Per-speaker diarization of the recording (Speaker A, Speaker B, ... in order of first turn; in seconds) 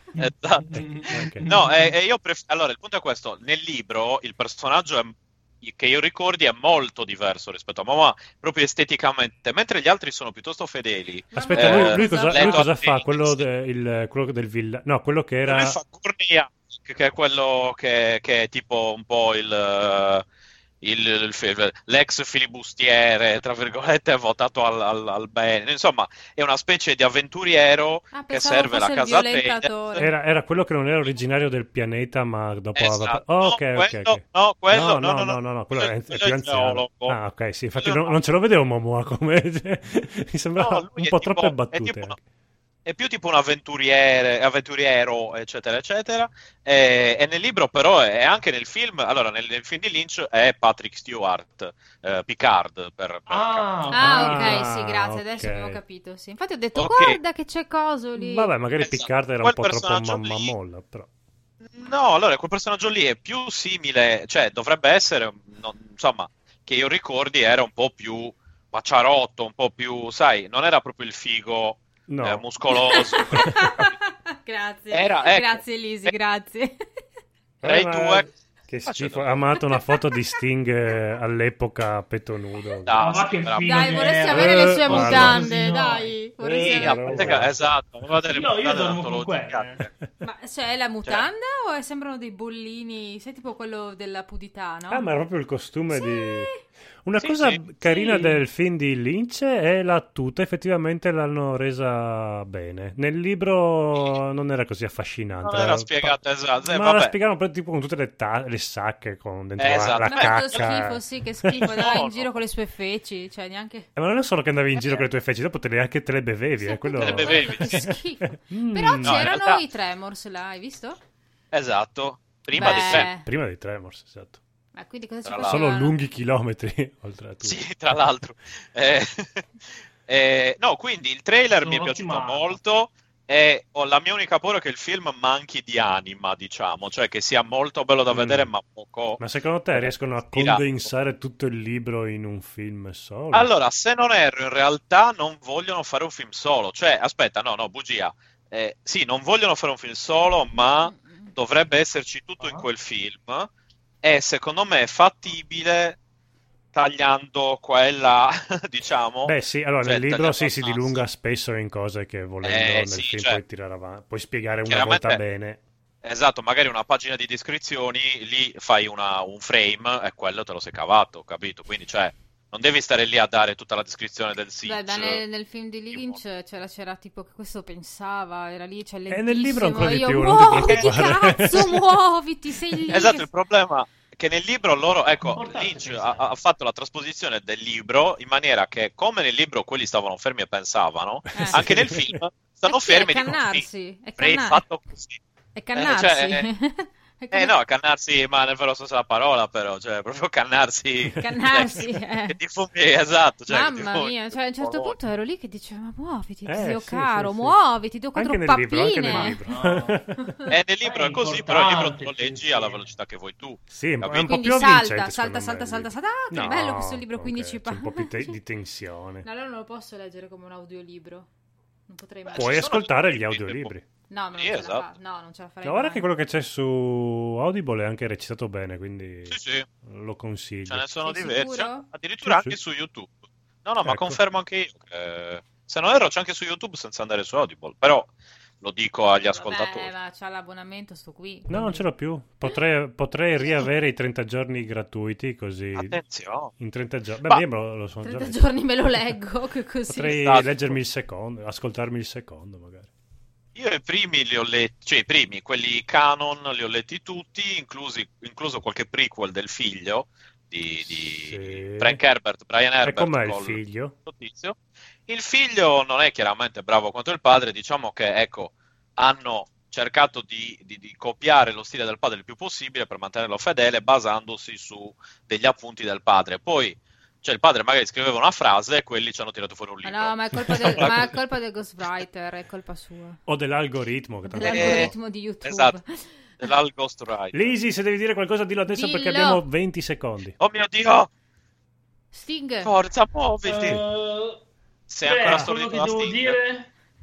Speaker A: 0.2-1.9, 53.3-54.6, 83.0-86.1, 88.3-89.8, 131.6-132.6, 152.4-152.7, 185.2-186.3, 209.1-210.0, 210.8-212.9, 293.4-294.4, 295.0-296.7
Speaker B: 0.2-13.4, 15.4-20.2, 20.8-30.1, 32.8-37.2, 37.8-38.2, 40.6-42.1, 42.9-53.9, 56.8-57.2, 58.8-60.5, 61.6-73.9, 74.9-76.1, 77.6-78.3, 78.9-79.3, 82.9-84.1, 86.6-89.9, 97.2-97.6, 105.4-107.2, 109.6-110.7, 111.6-112.4, 117.0-117.9, 119.0-119.6, 121.5-123.1, 125.2-125.7, 127.4-139.2, 139.7-140.9, 143.3-153.5, 154.0-156.0, 156.7-161.1, 162.4-163.4, 164.7-165.2, 166.0-175.2, 175.9-176.2, 180.6-181.8, 182.9-193.7, 194.2-195.2, 195.7-196.5, 197.3-205.0, 210.5-214.4, 222.3-223.7, 224.3-224.9, 229.3-229.7, 230.7-239.9, 245.8-246.5, 250.1-250.8, 253.6-280.9, 284.5-284.9, 285.4-285.8, 286.4-287.5, 290.4-291.1, 292.6-293.8, 294.9-296.4
Speaker C: 0.8-1.5, 11.3-15.8, 30.0-42.2, 54.0-55.8, 58.2-61.1, 72.1-72.5, 77.6-83.0, 84.3-85.5, 86.4-87.8, 94.9-96.5, 97.0-111.7, 114.0-119.3, 122.5-124.4, 125.4-127.7, 138.1-138.5, 139.2-143.5, 159.2-165.6, 179.1-181.8, 191.4-192.2, 201.1-201.3, 206.4-207.6, 208.1-210.3, 213.7-219.3, 222.3-223.9, 225.6-230.8, 232.2-232.6, 233.8-234.2, 241.5-246.0, 246.6-248.4, 249.9-252.9, 260.9-262.0, 262.8-263.9, 283.3-284.9, 287.3-290.4
Speaker D: 11.3-12.7, 28.1-30.1, 53.9-58.5, 72.9-76.8, 79.7-80.4, 83.6-87.4, 90.2-95.0, 95.9-96.6, 97.9-98.3, 110.0-113.9, 114.7-115.1, 116.6-121.0, 122.6-123.3, 124.7-126.0, 150.7-151.3, 174.6-183.3, 191.3-191.7, 192.7-194.6, 195.6-197.6, 201.2-202.4, 203.5-209.4, 214.2-218.3, 219.2-221.3, 221.9-222.6, 224.1-226.1, 231.0-231.9, 239.2-241.9, 248.0-250.2, 279.8-283.2, 284.2-286.2, 288.7-289.4, 292.1-292.7